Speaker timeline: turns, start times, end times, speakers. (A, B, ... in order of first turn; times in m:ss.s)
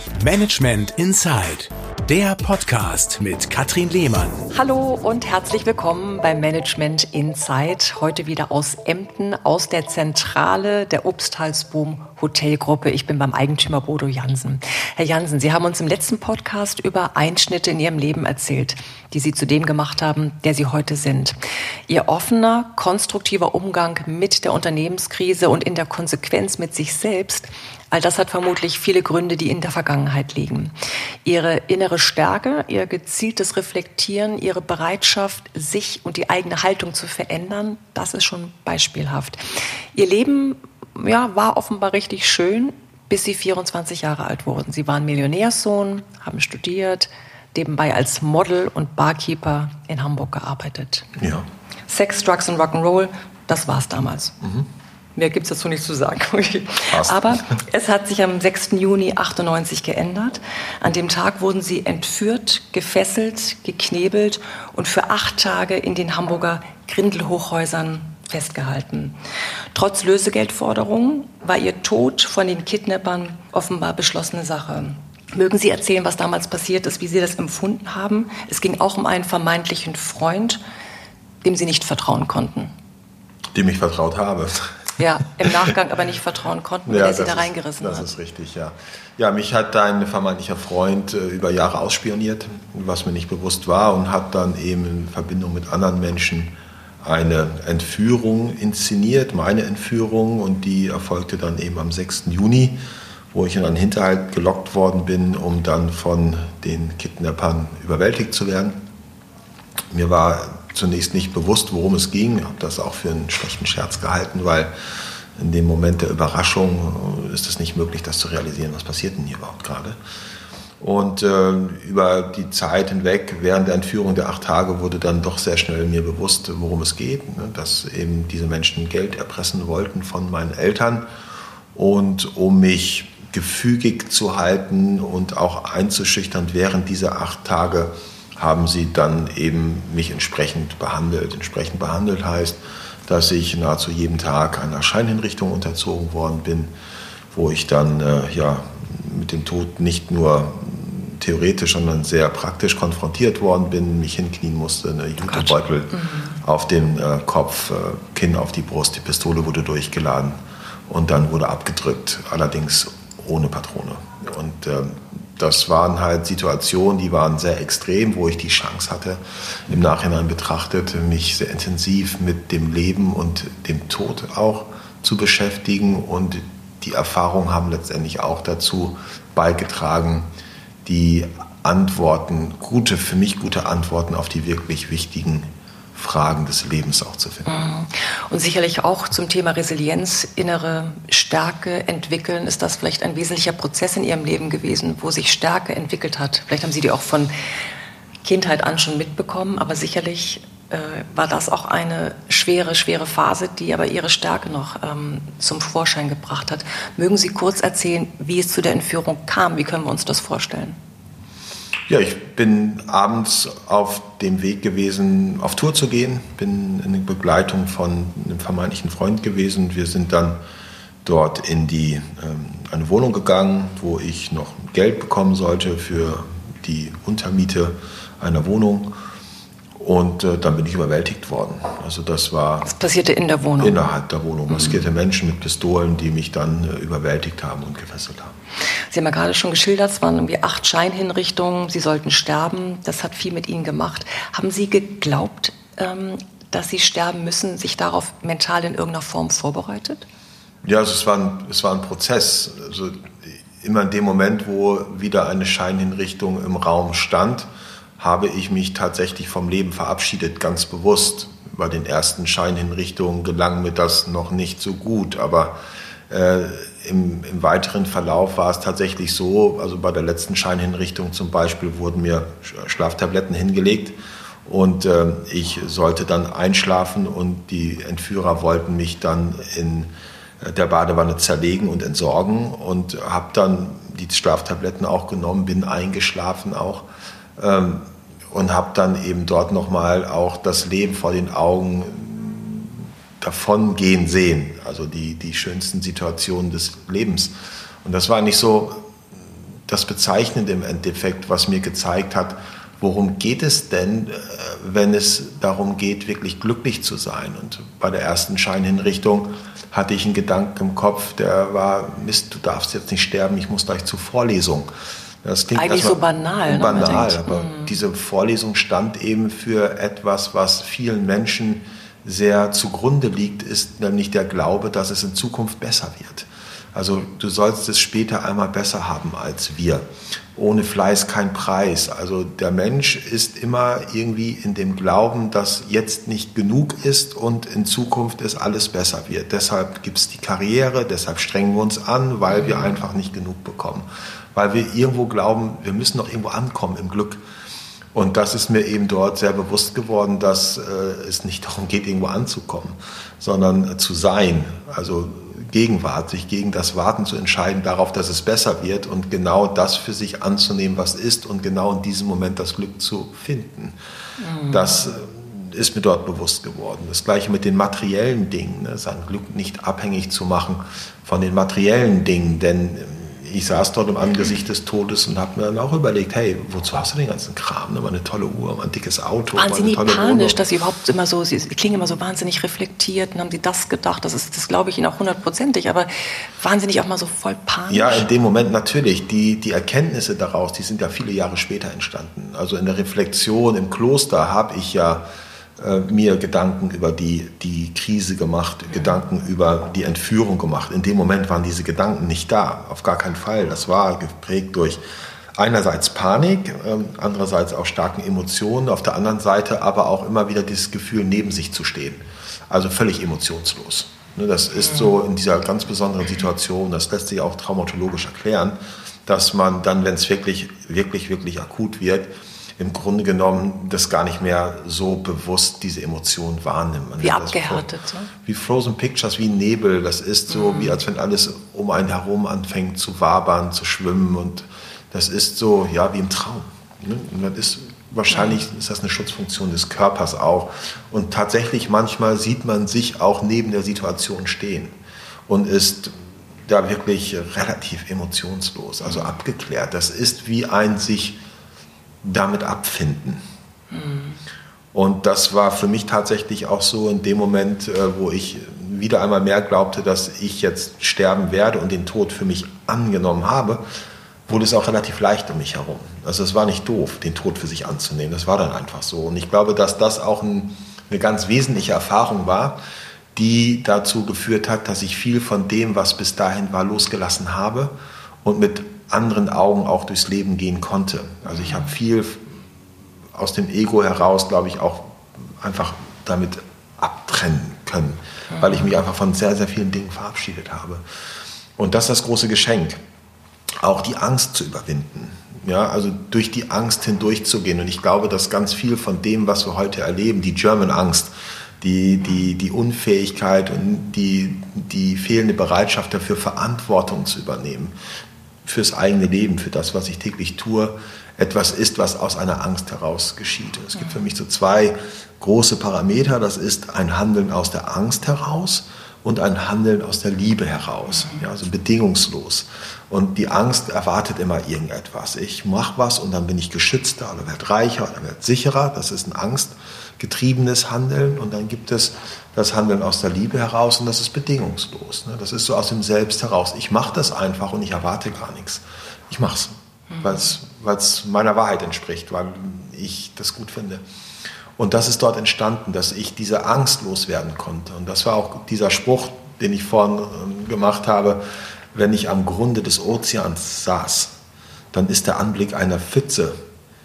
0:00.2-0:04.5 A
0:04.5-0:21.4 B
0:21.9-0:30.7 B
0:31.2-0:39.4 B
0:39.9-0:51.1 B
0:51.2-0:51.5 C
0:51.9-0:54.4 B
0:54.4-0:54.7 C
0:55.2-1:09.2 B
0:56.9-0:57.4 C
1:09.7-1:20.6 B
1:21.4-1:22.7 B
1:23.5-1:24.7 C
1:25.0-1:28.1 B
1:26.9-1:42.8 C
1:43.3-1:48.8 C
1:49.9-1:54.7 C
1:55.4-2:00.0 C
2:00.8-2:11.1 C
2:11.7-2:26.7 C
2:27.3-3:00.3 C
2:35.2-2:36.4 B
3:00.8-3:07.5 C
3:07.5-3:17.3 B
3:18.2-3:30.8 B
3:31.9-3:40.4 C
3:41.0-3:49.0 C
3:49.8-3:52.7 C
3:52.6-3:53.8 B
3:53.6-3:58.4 C
3:58.9-4:10.0 B
4:10.6-4:17.5 C
4:18.0-4:25.6 C
4:26.1-4:58.9 C
4:59.7-5:47.2 C
5:15.6-5:17.7 B
5:47.9-6:03.8 C
6:04.2-6:04.7 B
6:04.5-6:20.4 C
6:19.4-6:28.0 B
6:27.7-6:35.1 C
6:35.6-6:44.8 C
6:45.4-7:07.7 C
7:07.0-7:08.1 B
7:08.2-7:24.7 C
7:10.3-7:10.8 B
7:25.3-7:31.2 C
7:32.0-7:33.2 C
7:33.7-7:34.2 B
7:34.7-7:43.6 C
7:44.3-7:52.6 C
7:53.2-8:02.4 C
8:01.3-8:01.7 B
8:03.1-8:10.8 C
8:11.6-8:12.8 C
8:13.6-8:27.7 C
8:28.4-9:03.8 C
9:04.6-9:11.2 C
9:11.7-9:14.1 C
9:14.7-9:16.4 C